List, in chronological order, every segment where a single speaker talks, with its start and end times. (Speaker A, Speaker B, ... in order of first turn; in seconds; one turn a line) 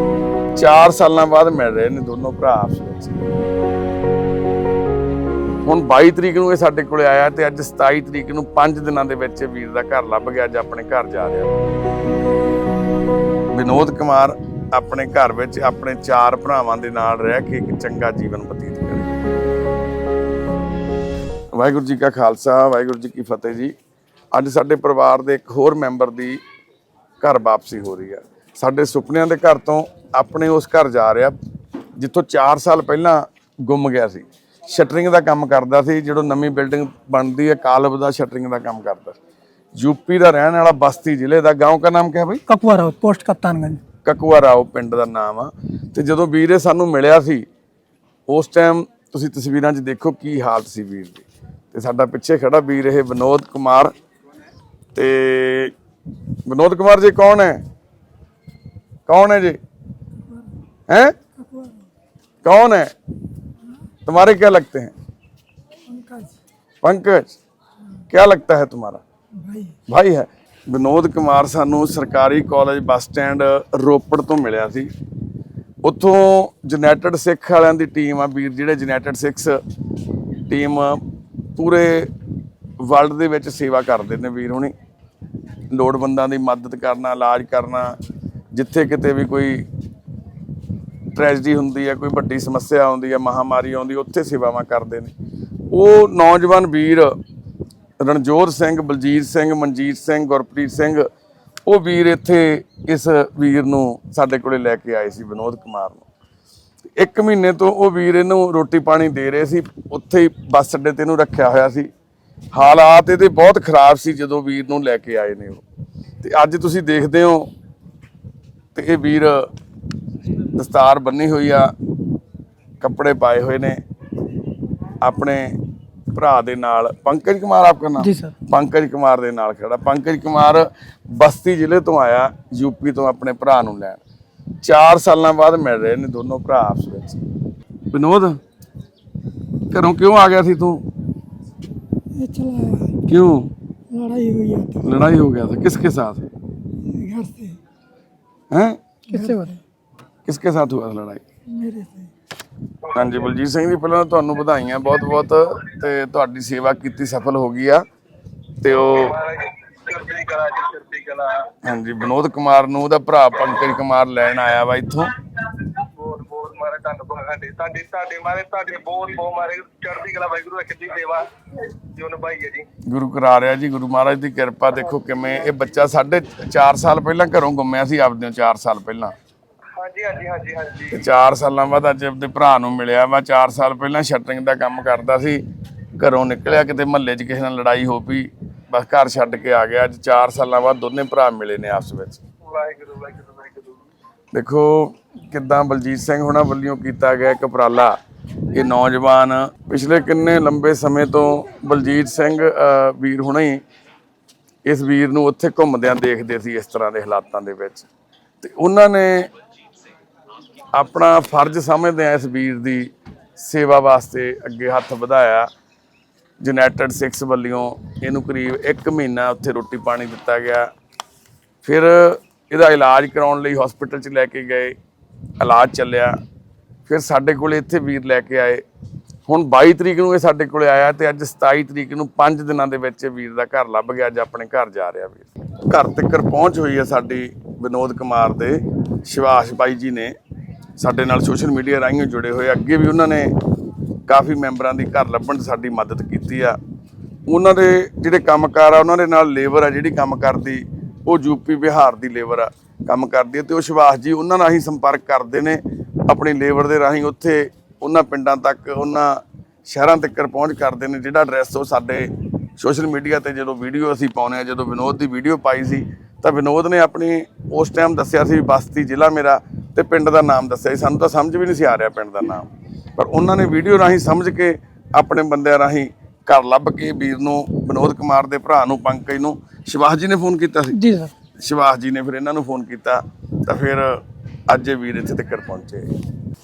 Speaker A: 0.5-3.2
Speaker A: 5.7-11.6
Speaker A: 13.5-19.1
Speaker A: 21.5-23.7
Speaker A: 24.3-26.4
Speaker A: 27.2-31.4
Speaker A: 32.0-39.2
Speaker A: 39.8-42.5
Speaker B: 42.5-43.8
Speaker A: 44.0-47.5
Speaker A: 48.3-53.9
Speaker A: 55.0-55.7
Speaker A: 56.5-57.6
Speaker A: 59.1-59.6
Speaker A: 60.9-61.2
Speaker B: 61.4-61.8
Speaker A: 62.4-62.9
Speaker A: 64.0-64.9
Speaker B: 65.9-66.4
Speaker A: 66.8-67.4
Speaker A: 68.1-69.0
Speaker B: 69.4-69.8
Speaker A: 69.9-74.9
Speaker A: 75.8-79.6
Speaker A: 80.5-81.0
Speaker A: 81.5-82.1
Speaker A: 82.8-84.7
Speaker A: 85.7-88.0
Speaker A: 88.5-89.7
Speaker A: 91.1-95.1
Speaker A: 95.7-97.2
Speaker A: 98.0-101.1
Speaker A: 101.7-106.1
Speaker A: 107.0-111.9
Speaker A: 112.5-115.6
Speaker A: 116.2-117.5
Speaker A: 118.8-119.5
Speaker A: 120.5-121.8
Speaker A: 122.8-123.8
Speaker A: 125.0-134.0
Speaker B: 128.0-128.3
Speaker A: 134.6-137.2
Speaker A: 137.9-138.4
Speaker A: 139.7-140.8
Speaker B: 142.1-143.0
Speaker A: 143.0-143.5
Speaker B: 143.9-144.9
Speaker A: 144.8-146.2
Speaker B: 146.7-147.6
Speaker A: 148.5-149.3
Speaker B: 149.1-149.6
Speaker A: 150.2-151.2
Speaker B: 151.5-152.1
Speaker C: 152.8-153.3
Speaker A: 152.9-157.8
Speaker A: 158.6-159.2
Speaker C: 158.7-161.5
Speaker A: 161.6-165.2
Speaker C: 165.8-172.7
Speaker A: 172.8-179.1
Speaker C: 179.8-181.0
Speaker A: 180.9-185.4
Speaker A: 186.0-192.2
Speaker C: 192.4-193.8
Speaker A: 194.3-198.0
Speaker A: 198.5-203.6
Speaker A: 204.7-207.9
Speaker A: 208.4-209.3
Speaker A: 210.7-215.5
Speaker A: 216.4-220.7
Speaker A: 221.6-224.8
Speaker A: 225.4-226.2
Speaker A: 226.9-228.7
Speaker A: 229.3-240.2
Speaker A: 240.8-243.4
Speaker A: 244.1-246.6
Speaker A: 247.3-285.9
Speaker B: 280.7-281.1